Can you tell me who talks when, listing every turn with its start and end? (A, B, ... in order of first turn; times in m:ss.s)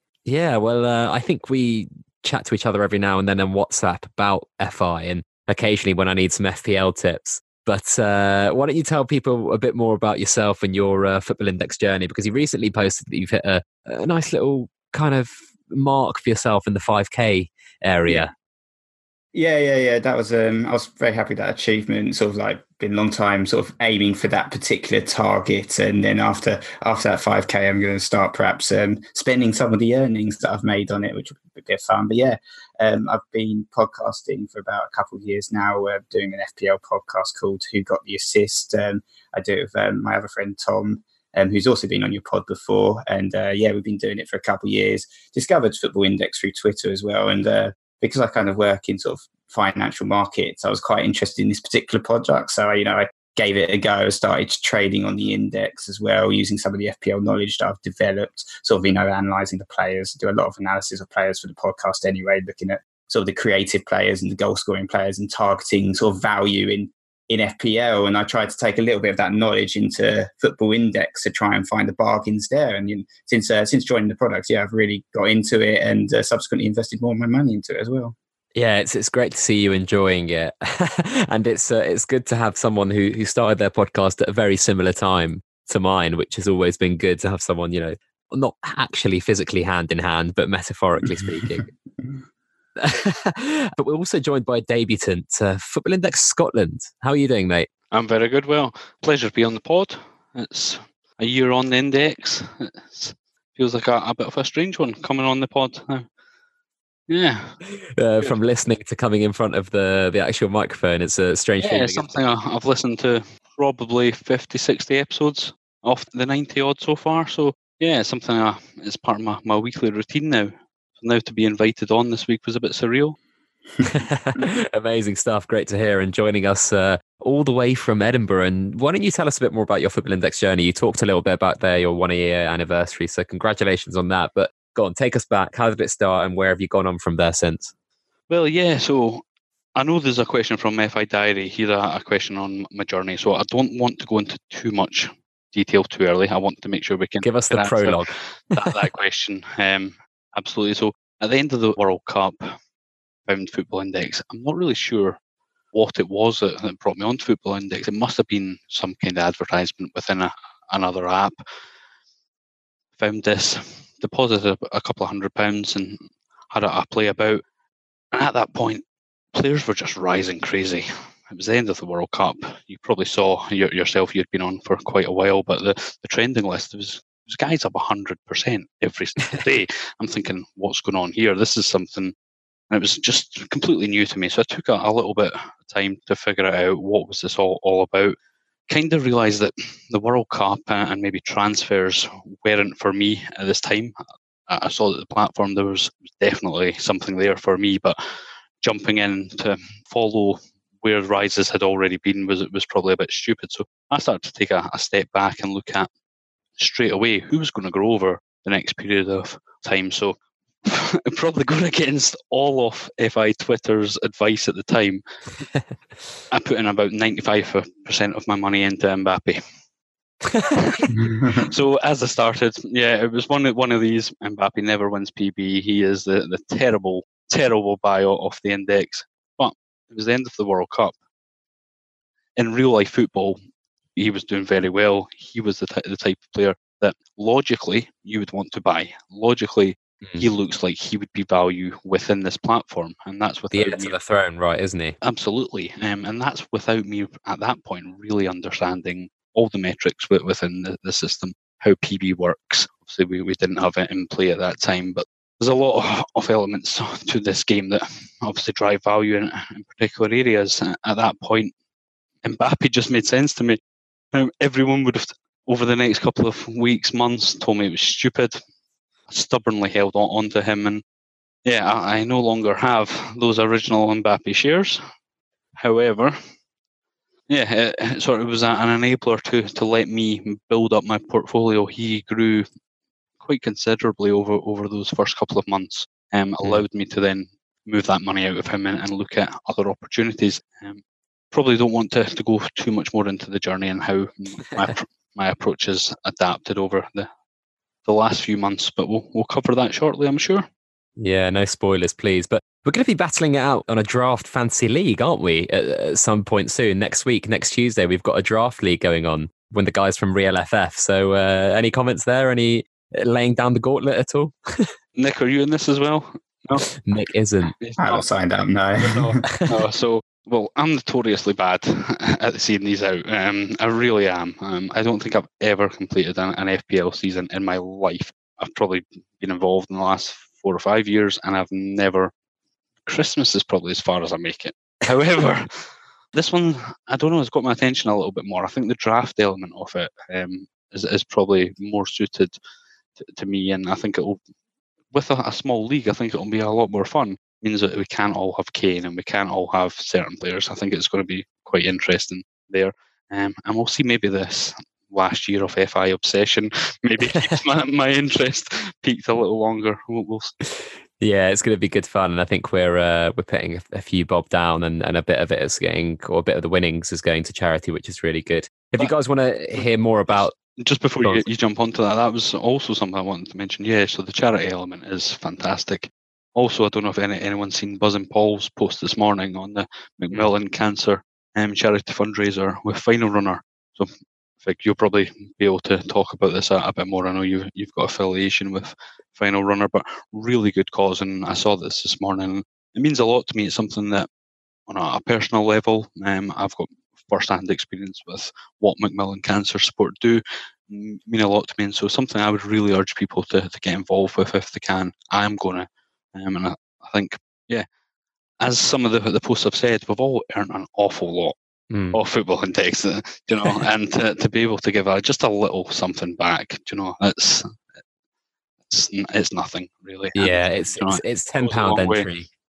0:00.2-0:18.3 A
0:19.3-1:18.1 B
1:18.5-1:31.7 A
1:31.0-1:32.2 B
1:32.8-1:37.7 A
1:37.9-1:46.1 C
1:47.1-1:47.6 C
1:48.0-1:52.1 A
1:51.6-2:03.2 C
2:03.8-2:17.7 A
2:18.3-2:19.2 C
2:19.8-2:32.6 C
2:27.2-2:28.7 A
2:33.3-2:35.2 C
2:35.7-2:41.4 C
2:43.0-2:47.4 C
2:48.1-3:02.1 C
3:02.7-3:08.2 C
3:08.7-3:18.0 C
3:18.6-3:25.9 C
3:26.6-3:35.0 C
3:36.3-3:39.4 C
3:40.2-3:40.8 A
3:40.5-3:50.9 C
3:40.9-3:41.5 B
3:52.4-3:53.4 C
3:53.9-4:04.0 C
4:03.5-4:05.0 A
4:05.0-4:21.5 C
4:22.2-4:23.6 C
4:24.1-4:28.4 C
4:29.1-4:30.8 C
4:31.4-4:34.8 C
4:35.6-4:36.2 C
4:37.3-4:42.5 C
4:43.2-4:57.1 C
4:57.8-5:00.5 C
5:01.0-5:14.7 A
5:15.0-5:16.7 C
5:16.8-5:17.5 A
5:17.6-5:18.0 C
5:17.8-5:19.2 B
5:18.8-5:32.1 C
5:32.8-5:42.4 C
5:43.0-5:44.2 C
5:44.9-6:00.3 C
5:57.0-5:57.4 A
6:01.0-6:10.4 A
6:10.6-6:34.1 C
6:34.7-6:47.6 C
6:48.4-6:51.4 C
6:51.7-6:52.0 A
6:51.9-6:57.6 C
6:58.7-7:02.1 C
7:00.1-7:02.3 A